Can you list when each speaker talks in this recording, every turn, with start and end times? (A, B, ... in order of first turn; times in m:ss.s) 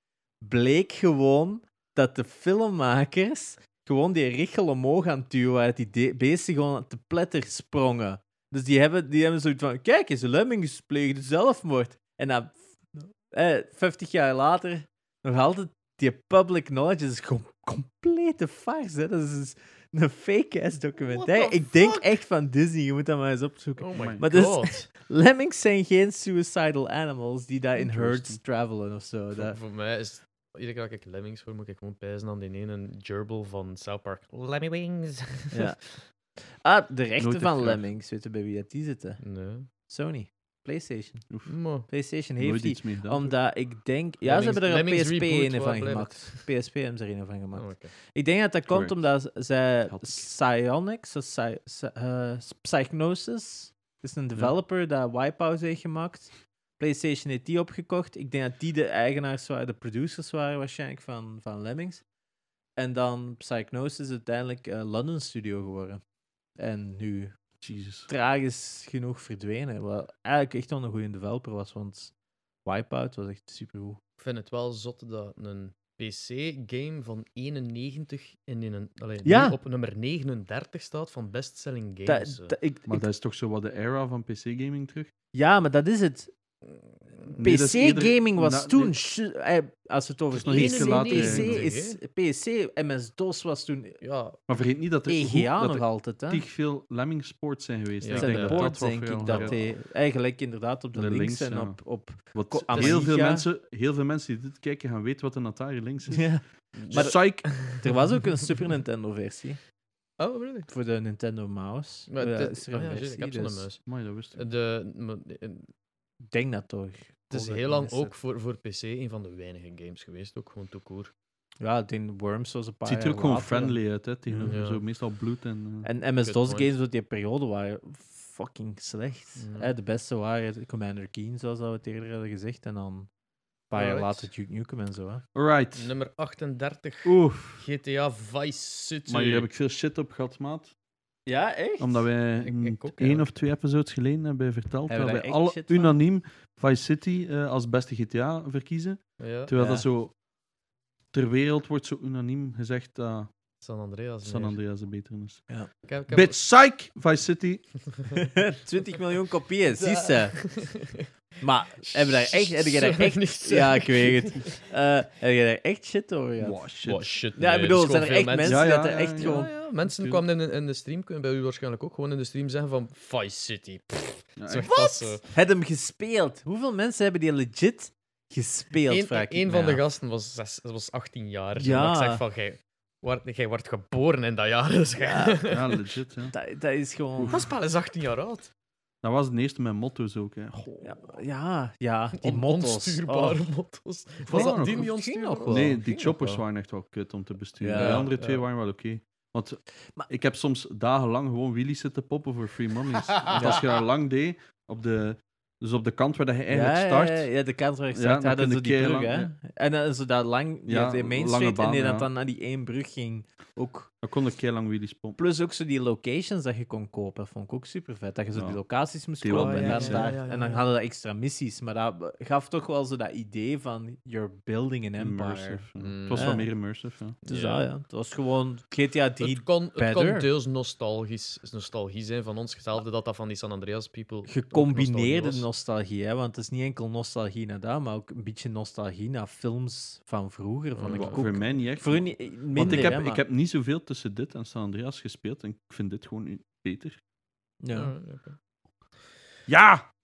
0:00.4-0:29.6 A
0:21.2-0:22.0 B
0:23.8-0:24.9 B
0:24.0-0:24.2 C
0:27.8-0:28.4 C
0:29.4-0:35.7 B
0:35.5-0:36.0 A
0:36.6-0:41.3 A
0:37.2-0:37.9 C
0:39.2-0:39.7 B
0:41.5-0:41.9 B
0:41.8-1:02.0 A
0:42.4-0:43.3 C
0:44.2-0:46.4 B
0:47.6-0:47.9 B
0:48.7-0:49.0 C
0:49.9-0:50.3 C
1:02.8-1:06.0 A
1:06.6-1:07.3 A
1:07.6-1:08.1 C
1:08.1-1:12.1 A
1:12.6-1:14.0 A
1:14.2-1:22.6 B
1:19.2-1:19.6 A
1:22.1-1:23.0 A
1:22.9-1:25.1 C
1:25.3-1:26.3 A
1:27.4-1:29.0 C
1:27.4-1:34.0 A
1:30.3-1:31.6 C
1:30.4-1:32.0 B
1:34.0-1:34.4 B
1:34.5-1:39.6 C
1:35.1-1:36.4 A
1:38.0-1:38.7 B
1:38.1-1:43.5 A
1:39.3-1:39.6 B
1:41.0-1:41.8 C
1:42.3-1:46.4 C
1:42.7-1:43.0 B
1:46.1-1:49.6 A
1:46.8-1:47.8 B
1:46.9-1:47.6 C
1:50.2-1:50.7 B
1:50.7-1:53.7 A
1:52.1-1:53.8 B
1:53.9-1:54.4 C
1:54.3-1:55.7 B
1:56.3-1:58.1 A
1:57.3-2:01.1 B
2:01.6-2:03.8 A
2:02.8-2:05.9 C
2:04.3-2:04.5 A
2:04.4-2:04.8 B
2:05.8-2:13.1 A
2:06.2-2:06.7 B
2:09.4-2:09.7 B
2:13.7-2:15.2 A
2:13.8-2:14.3 B
2:15.3-2:15.9 C
2:15.8-2:19.5 B
2:17.1-2:17.6 A
2:19.1-2:20.7 C
2:21.3-2:22.1 A
2:21.8-2:30.1 C
2:22.4-2:23.3 B
2:24.9-2:25.9 A
2:29.2-2:29.5 B
2:29.6-2:29.9 A
2:31.1-2:33.3 C
2:33.6-2:34.6 B
2:34.2-2:35.5 C
2:35.9-2:36.4 B
2:36.1-2:37.7 C
2:38.3-2:40.6 A
2:39.8-2:41.1 B
2:41.4-2:46.6 A
2:41.8-2:44.5 B
2:46.4-2:47.1 C
2:46.8-2:55.2 B
2:47.4-2:49.5 A
2:48.4-2:50.2 C
2:54.4-2:54.7 C
2:54.7-2:59.8 A
2:58.9-3:05.6 B
3:01.6-3:02.2 A
3:05.0-3:05.5 A
3:05.5-3:06.4 C
3:06.3-3:07.5 A
3:07.2-3:07.4 C
3:07.3-3:08.5 B
3:09.0-3:10.7 C
3:10.8-3:13.5 A
3:12.2-3:16.4 B
3:14.3-3:14.9 C
3:14.3-3:15.9 A
3:15.5-3:27.3 C
3:17.6-3:18.1 A
3:17.8-3:18.5 B
3:23.2-3:23.6 B
3:23.3-3:23.6 A
3:26.5-3:33.9 A
3:27.9-3:29.3 C
3:30.7-3:32.1 C
3:34.0-3:35.2 C
3:35.2-3:46.5 A
3:38.4-3:38.6 C
3:39.2-3:40.1 C
3:39.3-3:40.7 B
3:45.0-3:47.2 C
3:45.8-3:46.4 B
3:47.2-3:50.3 A
3:47.3-3:47.7 B
3:49.2-3:55.5 B
3:54.3-4:03.2 A
4:00.8-4:01.3 B
4:00.9-4:07.0 C
4:02.6-4:03.0 B
4:07.6-4:08.0 A
4:07.7-4:08.4 B
4:09.5-4:09.9 C